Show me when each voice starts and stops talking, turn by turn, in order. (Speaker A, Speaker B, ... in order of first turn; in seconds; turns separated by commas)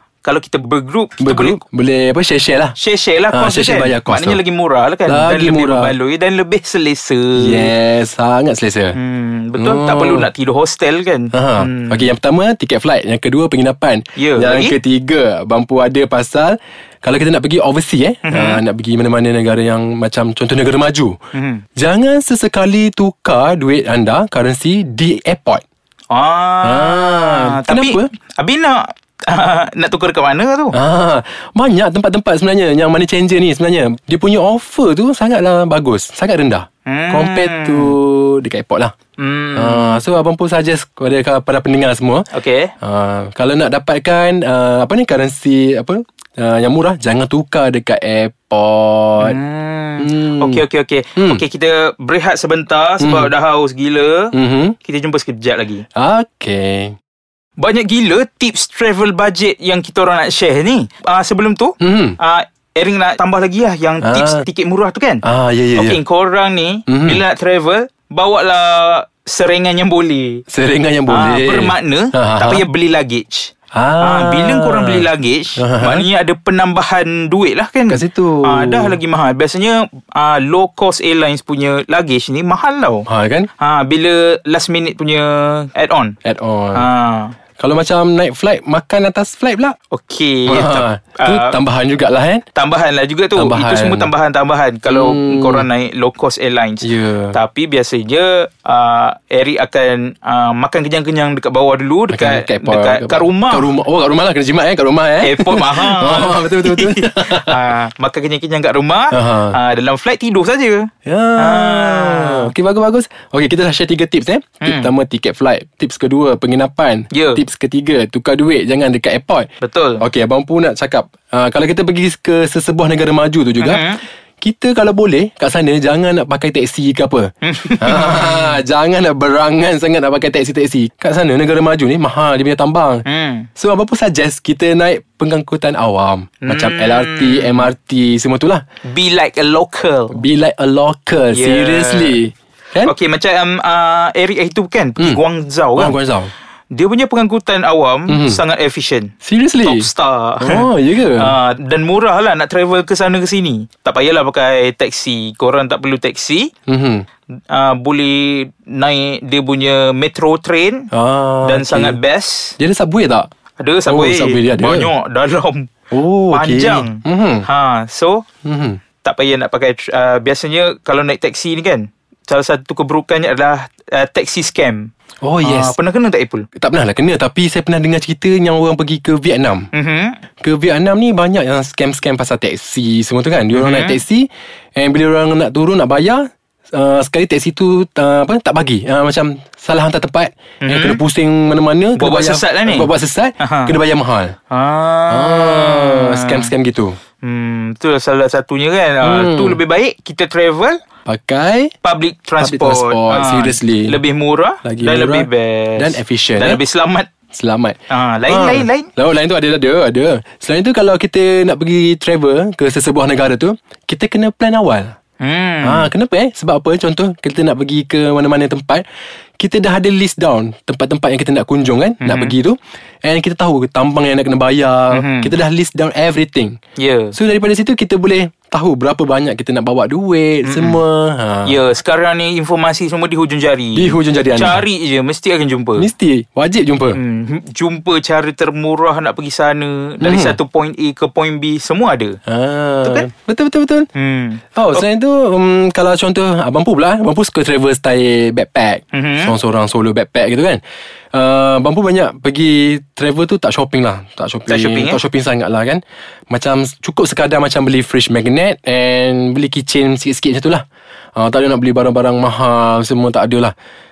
Speaker A: 0.2-1.6, Speaker B: 1.2-2.8, Speaker A: 2.8-7.7, Speaker B: 3.3-4.4, Speaker B: 5.1-5.9, Speaker B: 7.4-9.0, Speaker A: 8.9-12.1, Speaker B: 9.6-10.3, Speaker B: 11.3-21.2, Speaker A: 14.2-14.8, Speaker A: 18.3-18.6, Speaker A: 21.3-21.6, Speaker B: 21.8-25.6, Speaker A: 26.1-30.8, Speaker B: 26.6-28.1, Speaker B: 30.7-38.9, Speaker A: 36.9-38.0, Speaker A: 39.2-40.0, Speaker B: 39.5-42.3, Speaker A: 42.3-42.7, Speaker B: 42.8-49.4, Speaker A: 49.2-54.3, Speaker B: 50.0-50.6, Speaker B: 51.2-51.4, Speaker B: 53.0-53.3, Speaker B: 54.3-54.8, Speaker A: 54.8-55.8, Speaker B: 56.0-57.0, Speaker A: 57.6-65.2, Speaker B: 61.8-62.2, Speaker B: 64.0-64.4, Speaker B: 65.2-66.0, Speaker A: 65.8-70.4, Speaker B: 66.9-67.2, Speaker B: 70.5-72.7, Speaker A: 71.1-73.5, Speaker B: 73.7-76.1, Speaker A: 74.0-83.1, Speaker B: 77.9-79.0, Speaker B: 83.1-83.5, Speaker A: 83.6-86.2, Speaker B: 86.2-86.9, Speaker A: 86.7-87.3, Speaker B: 87.6-89.8, Speaker A: 89.9-91.6, Speaker B: 90.5-92.4, Speaker A: 92.5-103.7, Speaker B: 93.4-94.1, Speaker B: 94.9-95.7, Speaker B: 96.8-97.4, Speaker B: 102.1-107.6, Speaker A: 105.2-112.5, Speaker B: 109.1-109.6, Speaker B: 111.1-119.5, Speaker A: 114.6-114.9, Speaker A: 117.1-117.4, Speaker A: 119.6-120.0, Speaker B: 120.0-123.9, Speaker A: 123.6-124.0, Speaker B: 124.4-133.0, Speaker A: 127.4-128.6, Speaker A: 133.1-133.5, Speaker B: 133.6-138.6, Speaker A: 136.4-137.7, Speaker A: 138.8-140.2, Speaker B: 140.1-142.9, Speaker A: 141.3-142.2, Speaker A: 142.8-146.0, Speaker B: 145.8-146.3, Speaker A: 146.7-149.1, Speaker B: 148.1-148.4, Speaker B: 149.2-149.9, Speaker A: 149.6-156.5, Speaker B: 150.4-151.4, Speaker B: 156.7-157.0, Speaker A: 157.5-160.9, Speaker B: 160.9-162.0, Speaker A: 161.4-162.6, Speaker B: 162.6-163.3, Speaker A: 163.6-165.7, Speaker B: 163.9-164.9, Speaker B: 165.9-167.5, Speaker A: 166.3-168.2, Speaker B: 168.4-168.8, Speaker A: 169.0-174.9, Speaker B: 175.2-175.8, Speaker A: 175.4-176.5, Speaker B: 176.6-179.7, Speaker A: 179.7-180.2, Speaker B: 180.4-194.3, Speaker A: 183.5-184.0, Speaker A: 190.6-191.0, Speaker A: 192.0-193.8, Speaker A: 194.5-196.5, Speaker B: 195.1-197.0, Speaker A: 197.2-200.8, Speaker B: 199.0-199.6, Speaker B: 201.1-201.7, Speaker A: 201.8-207.1, Speaker B: 202.4-204.0, Speaker B: 204.6-206.6, Speaker B: 207.3-214.9, Speaker A: 207.9-208.9, Speaker A: 215.2-215.9, Speaker B: 215.6-218.8, Speaker B: 219.4-226.6, Speaker A: 222.0-222.4, Speaker A: 224.9-225.3, Speaker A: 226.8-227.2, Speaker B: 227.1-231.6, Speaker A: 230.4-230.8, Speaker A: 231.4-235.9, Speaker B: 233.8-234.6, Speaker B: 235.8-237.0, Speaker A: 236.9-242.2, Speaker B: 240.0-240.4, Speaker B: 242.3-243.9, Speaker A: 243.9-244.8, Speaker B: 244.6-250.6, Speaker A: 248.9-249.3, Speaker B: 251.1-260.6, Speaker A: 254.5-255.0, Speaker B: 261.2-263.5